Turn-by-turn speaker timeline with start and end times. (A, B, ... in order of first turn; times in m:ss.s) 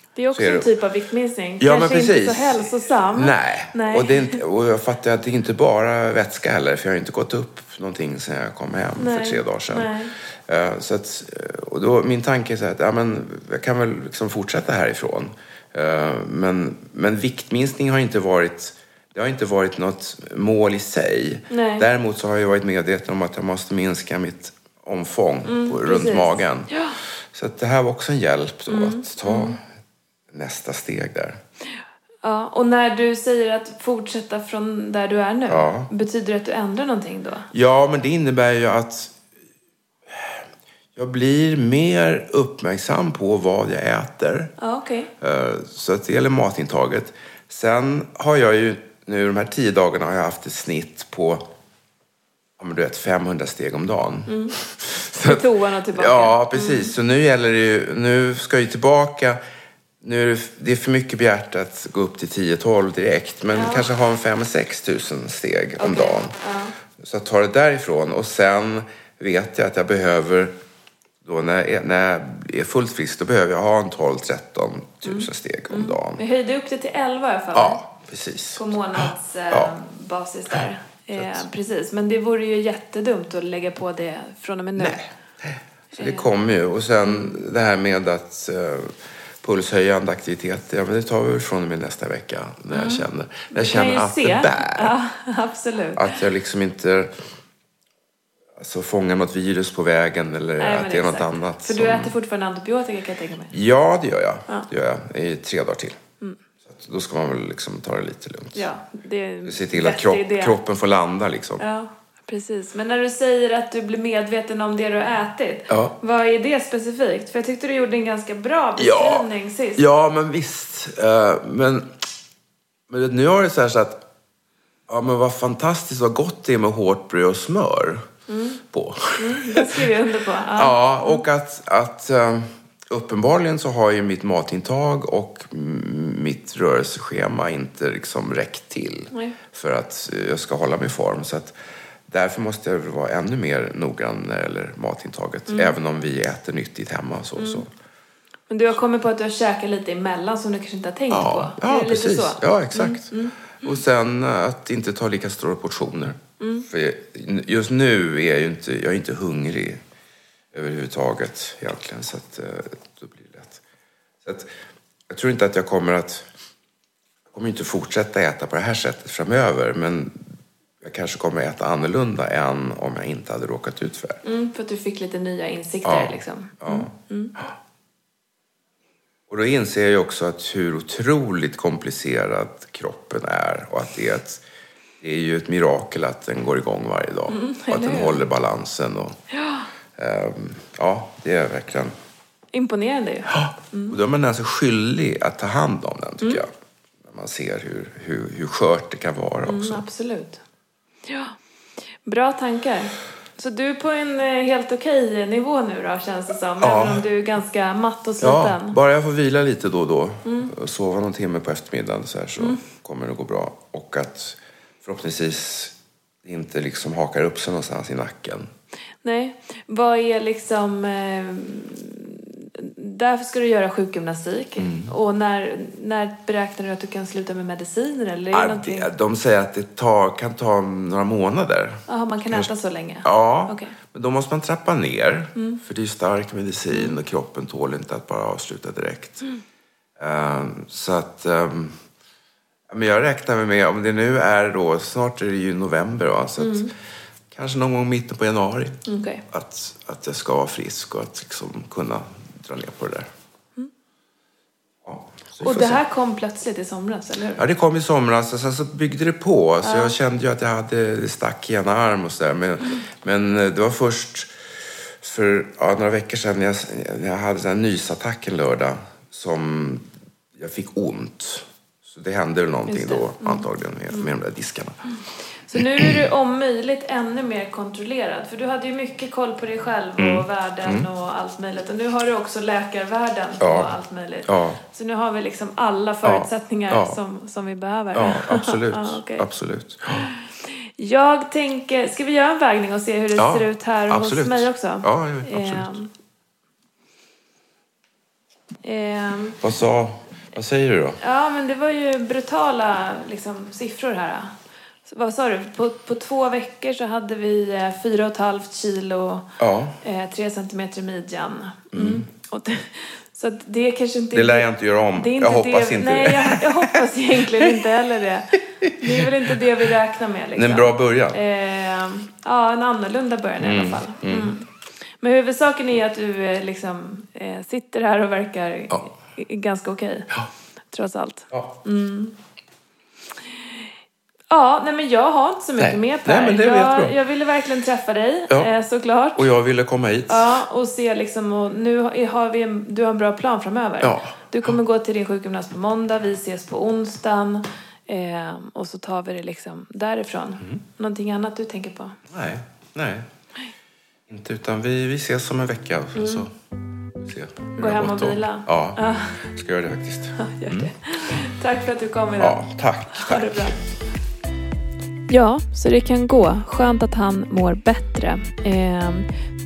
0:00.2-0:04.4 A
0:00.3-0:00.7 B
0:01.6-0:26.8 B
0:09.0-0:10.1 A
0:21.5-0:21.9 A
0:25.4-0:27.0 A
0:27.3-0:29.6 B
0:28.7-0:29.6 A
0:30.3-0:31.4 B
0:32.2-0:37.5 A
0:35.5-0:35.9 B
0:37.5-0:39.2 B
0:40.1-0:40.4 B
0:41.0-0:44.5 B
0:44.6-0:45.1 A
0:45.2-0:51.5 B
0:52.6-0:59.4 B
0:54.3-0:54.6 A
0:55.2-0:56.9 A
1:00.0-1:06.3 B
1:03.5-1:03.9 A
1:05.8-1:06.8 A
1:07.0-1:10.5 B
1:11.2-1:16.2 B
1:15.0-1:17.8 A
1:17.5-1:19.7 B
1:18.6-1:25.1 A
1:21.2-1:21.5 B
1:24.8-1:35.0 B
1:25.9-1:26.3 A
1:27.0-1:27.4 A
1:32.7-1:36.1 A
1:36.0-1:37.2 B
1:38.6-1:42.2 B
1:40.6-1:43.5 A
1:43.5-1:46.0 B
1:46.7-1:48.7 B
1:48.6-1:50.6 A
1:49.4-1:51.6 B
1:51.6-1:59.8 A
1:55.7-1:56.0 B
1:58.8-2:01.9 B
2:02.9-2:04.0 B
2:04.9-2:08.1 B
2:08.3-2:08.6 A
2:08.7-2:09.9 B
2:09.2-2:11.2 A
2:10.5-2:21.5 B
2:19.1-2:19.4 A
2:22.1-2:27.7 B
2:25.5-2:25.8 A
2:27.4-2:27.6 A
2:28.5-2:33.8 A
2:31.1-2:39.8 B
2:36.4-2:36.7 A
2:40.5-2:43.6 B
2:44.2-2:44.5 B
2:45.1-2:46.2 B
2:47.3-2:50.2 B
2:50.8-2:54.2 B
2:54.2-2:57.3 A
2:55.8-2:57.5 B
2:59.3-3:04.4 B
3:05.0-3:09.2 B
3:07.3-3:08.2 A
3:09.3-3:09.7 A
3:10.0-3:11.9 B
3:12.5-3:14.0 A
3:13.3-3:16.5 B
3:17.0-3:19.8 B
3:19.4-3:20.4 A
3:21.1-3:21.4 A
3:22.0-3:28.8 A
3:26.6-3:27.0 B
3:28.2-3:38.5 B
3:30.2-3:30.5 A
3:39.0-3:48.9 A
3:44.6-3:44.9 B
3:48.3-3:52.5 B
3:51.9-3:53.8 A
3:53.0-3:59.3 B
3:55.4-3:55.6 A
3:56.7-3:57.0 A
4:00.0-4:01.8 B
4:02.7-4:06.7 B
4:06.4-4:06.7 A
4:07.3-4:13.1 B
4:08.9-4:09.2 A
4:14.8-4:15.8 B
4:15.4-4:17.4 A
4:17.4-4:24.3 B
4:19.6-4:20.0 A
4:25.0-4:34.8 B
4:32.7-4:34.1 A
4:35.4-4:49.2 A
4:35.6-4:36.0 B
4:40.0-4:40.9 B
4:43.4-4:43.7 B
4:44.2-4:44.6 B
4:46.0-4:47.0 B
4:47.9-4:50.1 B
4:50.0-4:55.9 A
4:53.2-4:55.8 B
4:58.6-4:59.4 A
4:59.4-5:01.0 B
5:01.0-5:30.1 A
5:09.4-5:09.8 B
5:11.7-5:12.0 B
5:14.1-5:16.8 B
5:18.6-5:19.4 B
5:20.4-5:21.2 B
5:23.4-5:24.3 B
5:30.7-5:32.2 A
5:31.3-5:31.6 B
5:33.3-5:33.7 A
5:34.3-5:39.3 A
5:35.6-5:37.0 B
5:39.2-5:40.3 B
5:40.1-5:52.0 A
5:43.8-5:44.6 B
5:52.1-5:53.1 B
5:54.1-5:56.3 B
5:56.0-5:56.3 A
5:57.0-6:00.7 B
5:57.6-5:59.2 A
6:00.2-6:02.4 A
6:02.2-6:03.7 B
6:02.9-6:03.6 A
6:05.1-6:09.1 A